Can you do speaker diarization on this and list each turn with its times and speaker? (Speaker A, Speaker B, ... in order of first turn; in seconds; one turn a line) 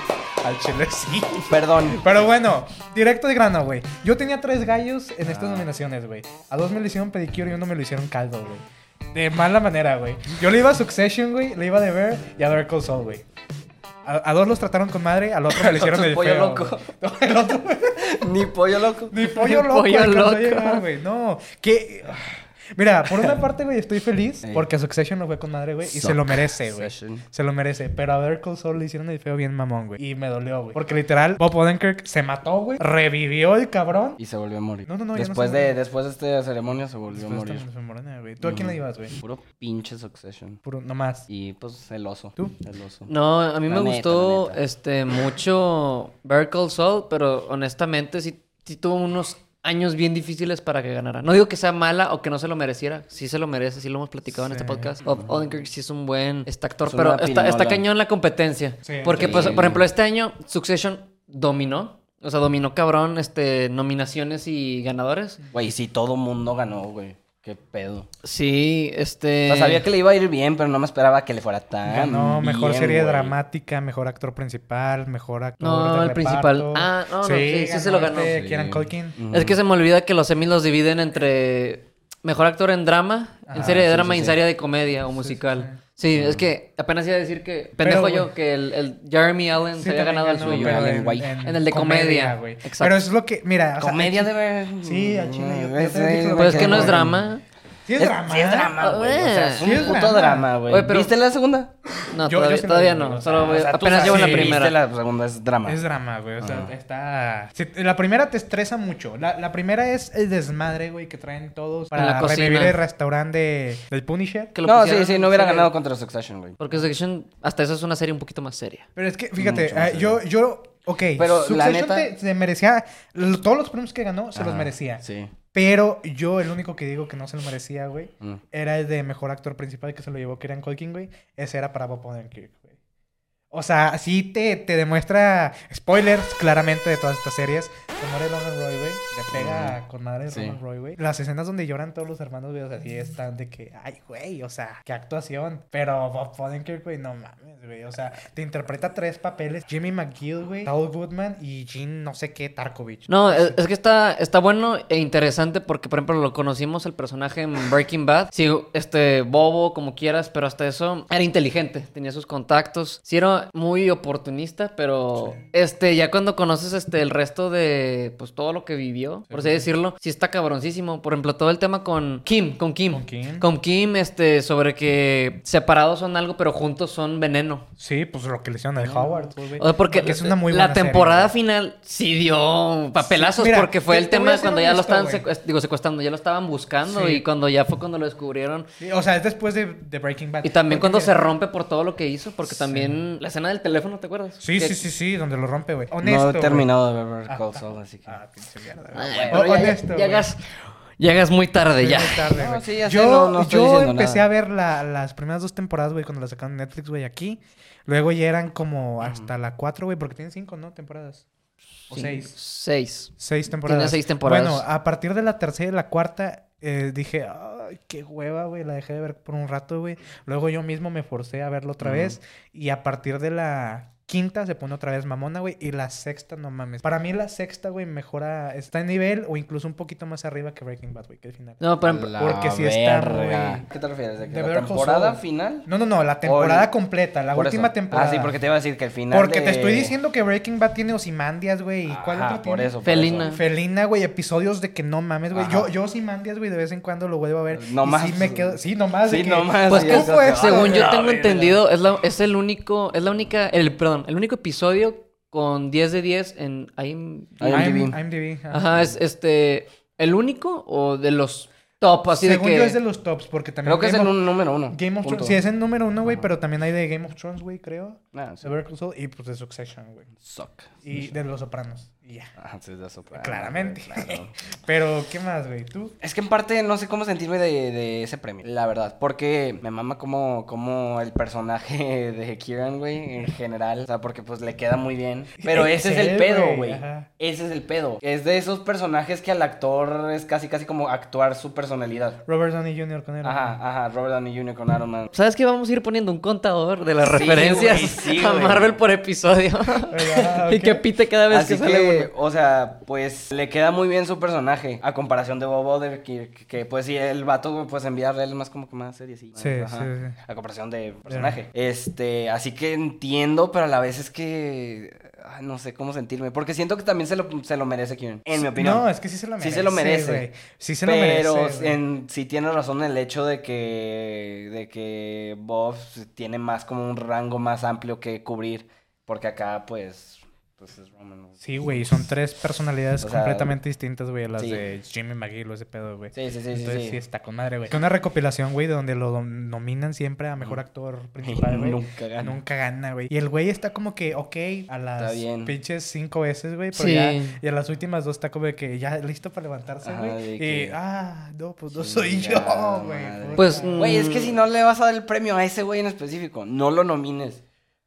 Speaker A: 0.4-13.2
Speaker B: 1.5-2.1
Speaker B: 5.2-5.7
Speaker A: 14.0-18.2
Speaker B: 15.5-16.9
Speaker B: 18.0-19.1
Speaker A: 19.1-34.2
Speaker C: 19.2-20.8
Speaker B: 25.9-27.2
Speaker B: 34.2-37.6
Speaker A: 34.8-35.8
Speaker A: 37.1-39.1
Speaker B: 38.4-40.6
Speaker A: 40.6-41.2
Speaker B: 41.3-43.1
Speaker C: 43.1-65.4
Speaker B: 43.6-44.6
Speaker A: 54.3-54.9
Speaker B: 55.0-55.3
Speaker B: 56.9-57.8
Speaker A: 58.9-59.6
Speaker B: 59.1-59.8
Speaker B: 65.5-68.1
Speaker C: 68.2-69.8
Speaker B: 69.5-73.3
Speaker A: 71.8-79.2
Speaker C: 75.6-78.4
Speaker B: 78.2-79.6
Speaker C: 79.3-93.0
Speaker A: 83.5-83.8
Speaker B: 83.5-84.4
Speaker A: 85.1-85.8
Speaker B: 86.1-86.5
Speaker A: 87.8-88.3
Speaker A: 89.8-94.3
Speaker B: 90.4-91.3
Speaker B: 93.8-97.2
Speaker A: 94.8-97.2
Speaker C: 96.4-97.4
Speaker A: 97.8-98.8
Speaker B: 98.0-101.7
Speaker C: 98.8-100.0
Speaker A: 99.6-100.5
Speaker C: 100.7-101.1
Speaker C: 102.1-104.8
Speaker A: 102.1-104.7
Speaker B: 103.3-105.8
Speaker A: 105.6-114.5
Speaker B: 106.4-106.7
Speaker C: 111.9-112.8
Speaker C: 114.5-115.7
Speaker B: 114.6-116.6
Speaker C: 116.6-118.9
Speaker A: 119.0-125.0
Speaker B: 119.4-120.2
Speaker B: 121.2-122.1
Speaker B: 124.3-125.3
Speaker A: 125.5-132.7
Speaker A: 133.5-153.6
Speaker B: 139.3-139.8
Speaker B: 140.3-140.6
Speaker C: 153.1-177.7
Speaker A: 169.3-169.7
Speaker A: 172.9-173.5
Speaker A: 177.8-181.3
Speaker C: 179.5-188.7
Speaker A: 183.0-185.2
Speaker A: 186.9-187.2
Speaker A: 188.8-191.2
Speaker C: 190.4-194.8
Speaker A: 192.4-193.0
Speaker A: 194.4-196.7
Speaker B: 196.0-198.2
Speaker A: 197.3-200.3
Speaker C: 198.9-200.4
Speaker B: 199.1-199.6
Speaker C: 201.0-202.3
Speaker A: 201.8-211.2
Speaker B: 202.3-204.2
Speaker B: 209.0-209.3
Speaker C: 211.9-213.1
Speaker A: 211.9-212.3
Speaker A: 213.2-233.7
Speaker C: 213.7-214.6
Speaker B: 221.8-222.2
Speaker C: 231.6-232.1
Speaker B: 231.8-235.7
Speaker A: 234.2-238.4
Speaker B: 236.2-236.7
Speaker B: 237.3-239.9
Speaker A: 239.1-250.9
Speaker B: 241.8-243.3
Speaker C: 242.8-243.4
Speaker B: 245.3-245.7
Speaker B: 247.5-251.6
Speaker C: 249.7-257.5
Speaker B: 257.4-258.0
Speaker A: 257.4-258.9
Speaker C: 258.5-262.8
Speaker A: 262.1-270.1
Speaker B: 263.6-265.3
Speaker B: 268.1-268.4
Speaker B: 270.2-271.1
Speaker A: 270.8-272.3
Speaker B: 272.4-274.3
Speaker A: 273.1-275.9
Speaker B: 276.0-292.2
Speaker A: 285.4-287.1
Speaker A: 292.2-293.6
Speaker B: 293.2-295.1
Speaker C: 295.1-302.1
Speaker B: 297.0-298.8
Speaker A: 299.9-300.8
Speaker B: 301.3-318.9
Speaker A: 309.4-310.2
Speaker A: 311.1-311.4
Speaker A: 318.4-321.8
Speaker B: 319.4-320.3
Speaker B: 320.8-331.4
Speaker A: 331.4-353.8
Speaker B: 333.0-333.5
Speaker B: 334.4-334.6
Speaker B: 336.1-337.0
Speaker B: 341.2-342.4
Speaker B: 345.0-345.5
Speaker C: 346.7-347.4
Speaker B: 349.8-350.8
Speaker B: 351.8-357.4
Speaker C: 353.4-354.3